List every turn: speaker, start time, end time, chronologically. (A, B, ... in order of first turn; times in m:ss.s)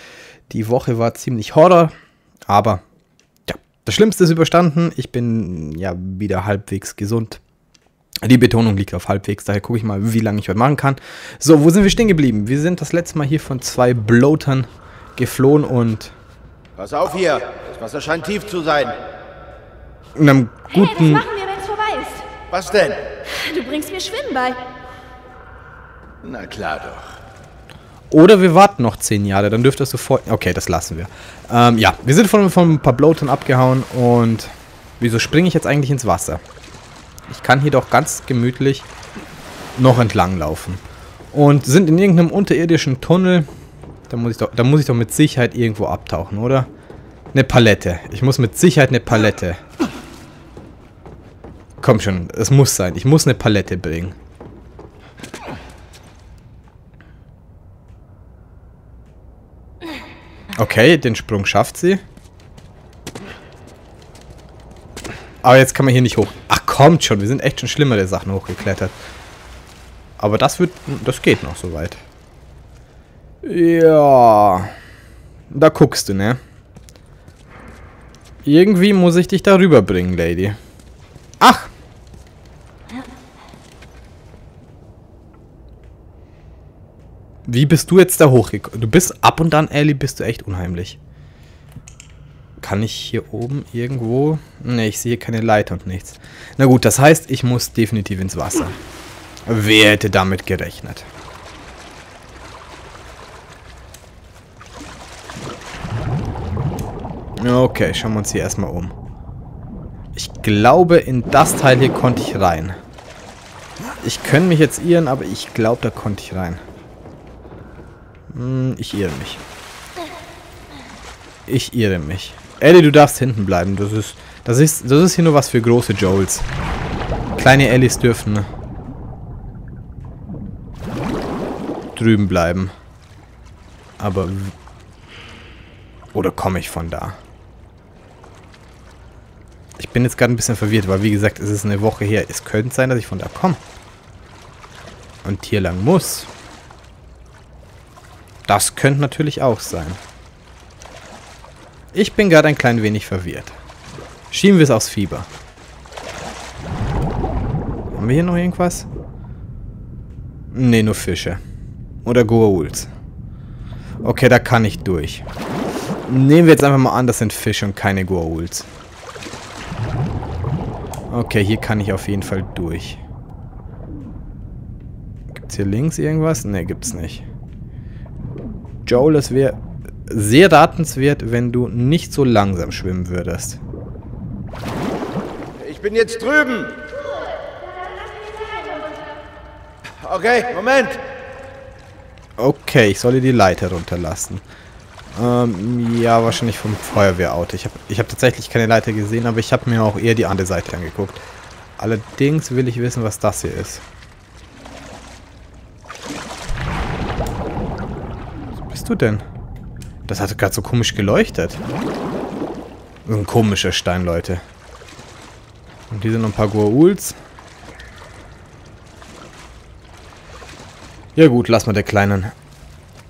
0:00.5-0:01.9 A
0:02.5-0:02.8 A
0:03.5-0:07.4 A
0:08.2-0:16.2 A
0:16.8-0:19.0 B
0:20.2-0:21.3 A
0:20.7-0:22.3 C
0:22.5-0:23.1 B
0:23.3-0:24.6 C
0:26.2-0:27.1 B
0:28.1-0:36.4 A
0:37.3-0:38.9 A
0:39.8-0:40.8 A
0:41.3-0:43.5 A
0:44.1-0:46.7 A
0:47.3-0:49.6 A
0:51.8-0:54.2 A
1:00.6-1:02.0 A
1:05.4-1:09.0 A
1:10.2-1:12.0 A
1:13.4-1:14.7 A
1:15.5-1:16.4 A
1:18.4-1:20.6 A
1:21.4-1:21.7 A
1:27.4-1:31.0 A
1:32.6-1:38.8 A
1:39.5-1:41.1 A
1:47.4-1:48.9 A
1:50.2-1:52.8 A
1:54.0-1:56.6 A
1:58.3-1:59.4 A
2:01.5-2:06.5 A
2:07.4-2:08.5 A
2:12.0-2:12.7 A
2:14.0-2:14.5 A
2:16.1-2:17.2 A
2:19.8-2:23.6 A
2:25.2-2:26.3 A
2:28.5-2:30.0 A
2:31.9-2:33.6 A
2:34.3-2:35.3 A
2:37.9-2:38.9 A
2:40.5-2:41.4 A
2:42.0-2:42.9 A
2:44.0-2:45.2 A
2:46.1-2:48.7 A
2:51.1-2:53.0 A
2:55.3-2:57.3 A
2:58.9-3:03.6 A
3:05.6-3:06.8 B
3:08.2-3:09.0 C
3:10.0-3:11.0 B
3:12.4-3:14.4 A
3:15.1-3:21.2 A
3:21.8-3:23.8 A
3:28.7-3:29.2 A
3:30.1-3:31.6 A
3:33.1-3:34.4 A
3:35.9-3:37.2 A
3:41.2-3:42.3 A